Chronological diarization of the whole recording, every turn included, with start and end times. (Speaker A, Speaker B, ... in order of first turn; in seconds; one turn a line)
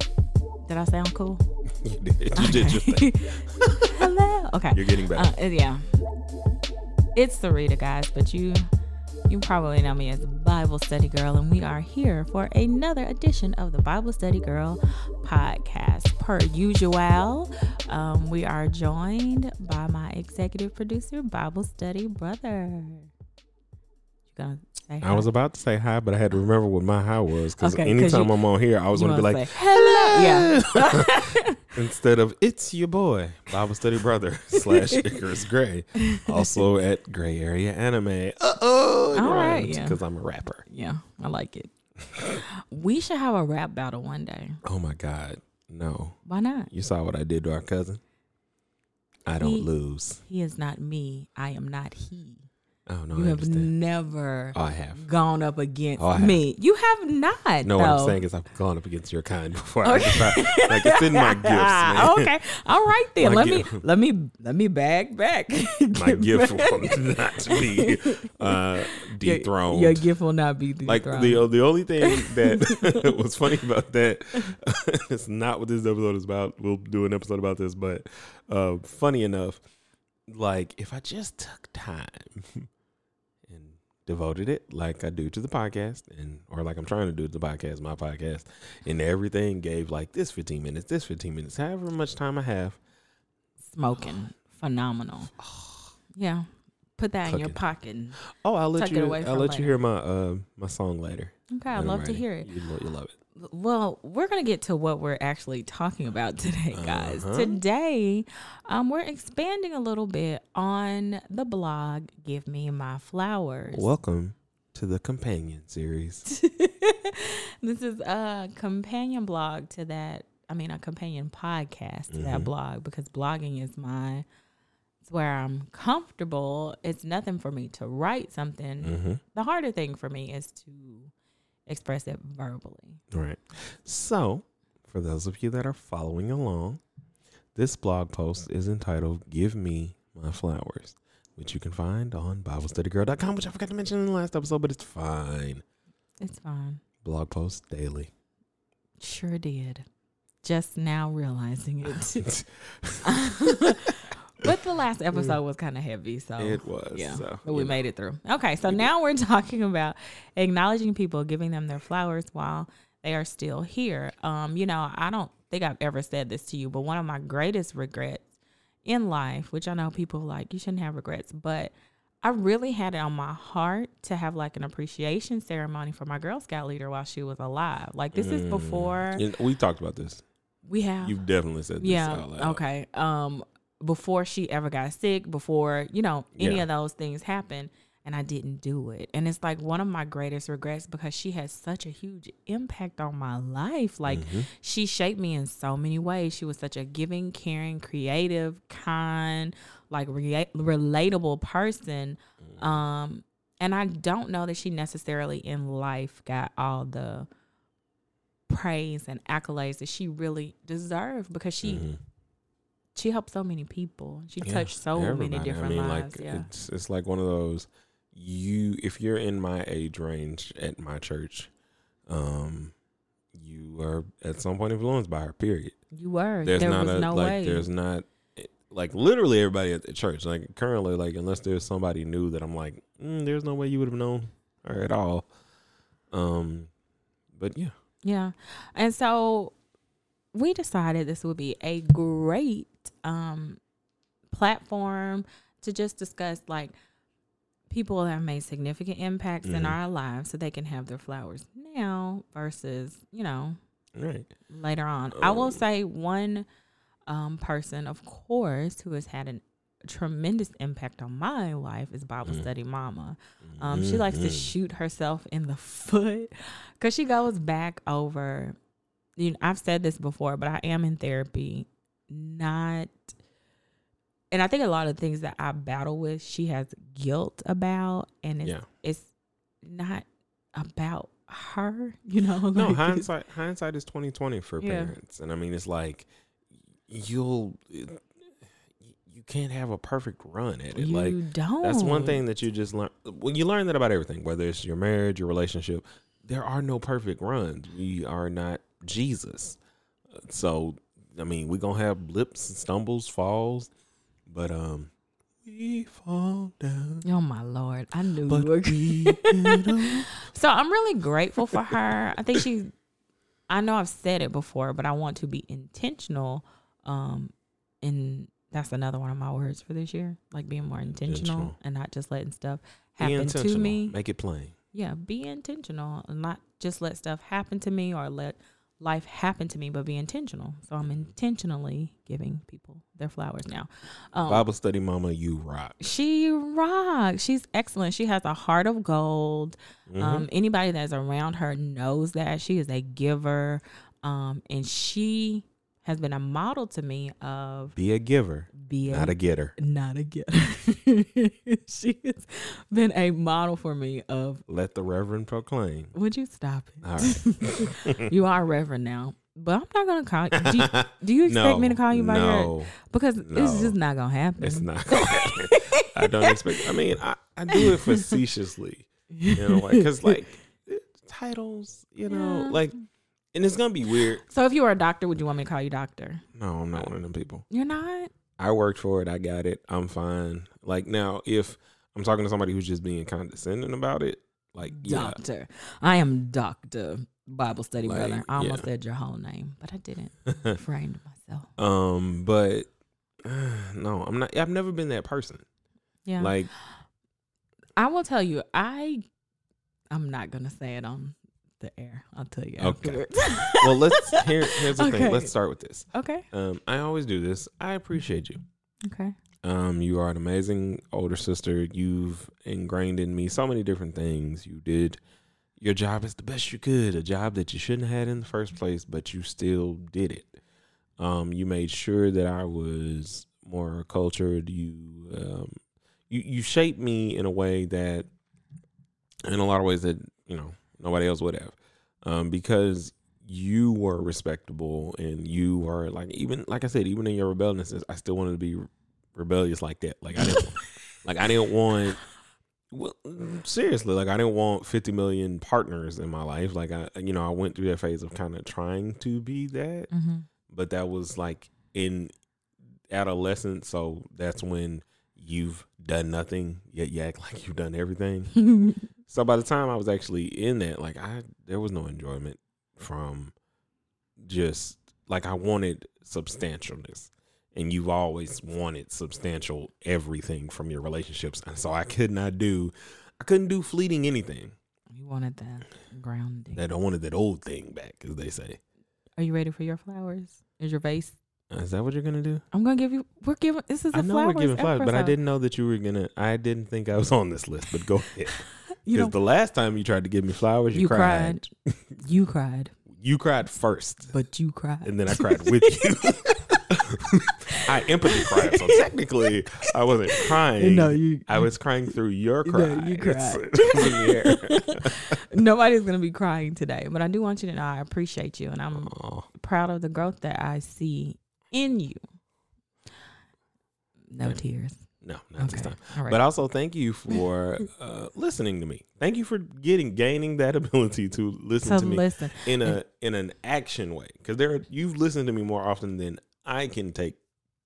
Speaker A: 0.6-1.4
Speaker B: 1.7-4.0
Speaker A: 2.4-5.9
Speaker B: 4.7-5.3
Speaker A: 7.1-8.7
Speaker A: 9.3-23.1
Speaker A: 24.3-25.3
Speaker B: 25.0-40.6
Speaker A: 27.6-28.3
Speaker A: 28.9-31.7
Speaker A: 34.5-35.0
Speaker A: 36.0-36.6
Speaker A: 39.1-40.0
Speaker A: 40.7-44.6
Speaker B: 44.6-46.2
Speaker A: 46.2-46.7
Speaker B: 46.7-48.0
Speaker B: 49.2-50.2
Speaker A: 49.4-49.7
Speaker A: 50.2-52.5
Speaker B: 52.9-53.7
Speaker A: 53.1-58.2
Speaker B: 54.5-55.0
Speaker B: 56.0-56.4
Speaker B: 57.6-62.3
Speaker A: 59.8-71.5
Speaker B: 63.2-63.8
Speaker B: 65.9-70.0
Speaker B: 70.8-79.6
Speaker A: 72.0-73.1
Speaker B: 80.3-82.7
Speaker B: 83.5-92.8
Speaker A: 93.7-95.3
Speaker B: 95.4-95.9
Speaker A: 96.2-99.7
Speaker B: 97.2-97.6
Speaker B: 98.2-103.1
Speaker A: 101.5-102.5
Speaker A: 103.3-113.9
Speaker B: 106.7-107.6
Speaker B: 113.7-116.2
Speaker A: 116.3-124.2
Speaker B: 122.1-122.5
Speaker A: 125.0-131.1
Speaker B: 128.8-129.2
Speaker A: 131.7-133.0
Speaker B: 133.1-136.8
Speaker B: 137.5-145.6
Speaker A: 146.2-146.8
Speaker B: 147.0-148.1
Speaker A: 149.0-149.8
Speaker A: 150.4-152.3
Speaker B: 151.8-153.9
Speaker A: 153.0-168.3
Speaker B: 156.4-157.8
Speaker B: 158.6-158.9
Speaker A: 168.8-179.2
Speaker B: 178.1-180.2
Speaker A: 180.7-181.2
Speaker B: 181.0-182.6
Speaker A: 181.8-207.3
Speaker B: 186.3-186.7
Speaker B: 194.1-194.5
Speaker A: 208.5-211.8
Speaker B: 211.6-212.0
Speaker A: 212.9-216.5
Speaker B: 214.4-221.5
Speaker B: 222.1-222.7
Speaker B: 223.3-225.8
Speaker A: 225.9-227.7
Speaker B: 226.4-235.3
Speaker B: 236.1-236.7
Speaker B: 237.3-237.7
Speaker A: 238.0-239.5
Speaker A: 240.3-243.6
Speaker A: 244.3-246.7
Speaker A: 247.7-253.6
Speaker B: 249.4-249.8
Speaker B: 253.9-254.3
Speaker A: 254.5-256.4
Speaker B: 255.1-255.6
Speaker A: 257.1-268.6
Speaker B: 263.4-264.5
Speaker A: 269.2-273.1
Speaker A: 274.3-279.1
Speaker A: 279.6-283.1
Speaker B: 282.5-286.1
Speaker A: 284.6-284.9
Speaker B: 286.9-288.1
Speaker B: 288.8-299.6
Speaker A: 290.7-292.2
Speaker B: 300.1-303.7
Speaker B: 304.3-304.9
Speaker B: 305.4-307.0
Speaker A: 307.0-312.7
Speaker B: 308.3-310.1
Speaker A: 313.5-323.9
Speaker B: 321.0-321.5
Speaker B: 323.0-324.5
Speaker A: 324.7-334.4
Speaker B: 334.3-335.8
Speaker A: 335.8-347.8
Speaker B: 339.9-340.3
Speaker B: 347.8-349.5
Speaker A: 348.6-354.4
Speaker B: 354.5-355.9
Speaker A: 355.9-366.7
Speaker B: 356.8-358.1
Speaker B: 360.4-363.8
Speaker B: 364.4-372.7
Speaker A: 367.5-368.2
Speaker A: 369.1-370.2
Speaker A: 372.1-372.6
Speaker B: 373.3-374.2
Speaker A: 374.0-376.2
Speaker B: 376.3-377.4
Speaker A: 377.5-378.1
Speaker B: 378.4-385.2
Speaker A: 384.6-391.5
Speaker B: 387.8-388.6
Speaker B: 390.2-390.6
Speaker B: 391.6-392.7
Speaker B: 393.2-395.4
Speaker A: 396.1-396.4
Speaker B: 396.2-396.5
Speaker A: 397.8-399.0
Speaker A: 399.9-405.3
Speaker B: 402.6-408.4
Speaker A: 405.9-406.2
Speaker A: 408.8-409.1
Speaker B: 409.4-415.0
Speaker B: 415.6-420.4
Speaker B: 421.0-428.1
Speaker B: 429.3-442.0
Speaker B: 442.7-449.9
Speaker A: 449.9-450.3
Speaker B: 450.5-452.1
Speaker B: 452.9-458.3
Speaker A: 458.4-458.8
Speaker B: 459.1-463.3
Speaker B: 464.2-474.5
Speaker A: 474.9-476.6
Speaker B: 476.5-478.6
Speaker A: 479.2-481.2
Speaker B: 481.5-482.4
Speaker A: 482.5-485.1
Speaker B: 483.9-491.9
Speaker A: 488.8-489.1
Speaker A: 490.7-491.4
Speaker A: 492.0-492.7
Speaker B: 492.9-494.1
Speaker A: 494.1-496.1
Speaker B: 494.8-505.1
Speaker A: 497.5-498.9
Speaker A: 500.1-501.5
Speaker A: 502.4-512.0
Speaker B: 508.7-509.3
Speaker A: 514.1-514.8
Speaker B: 515.0-527.2
Speaker A: 515.4-516.2
Speaker A: 521.6-522.8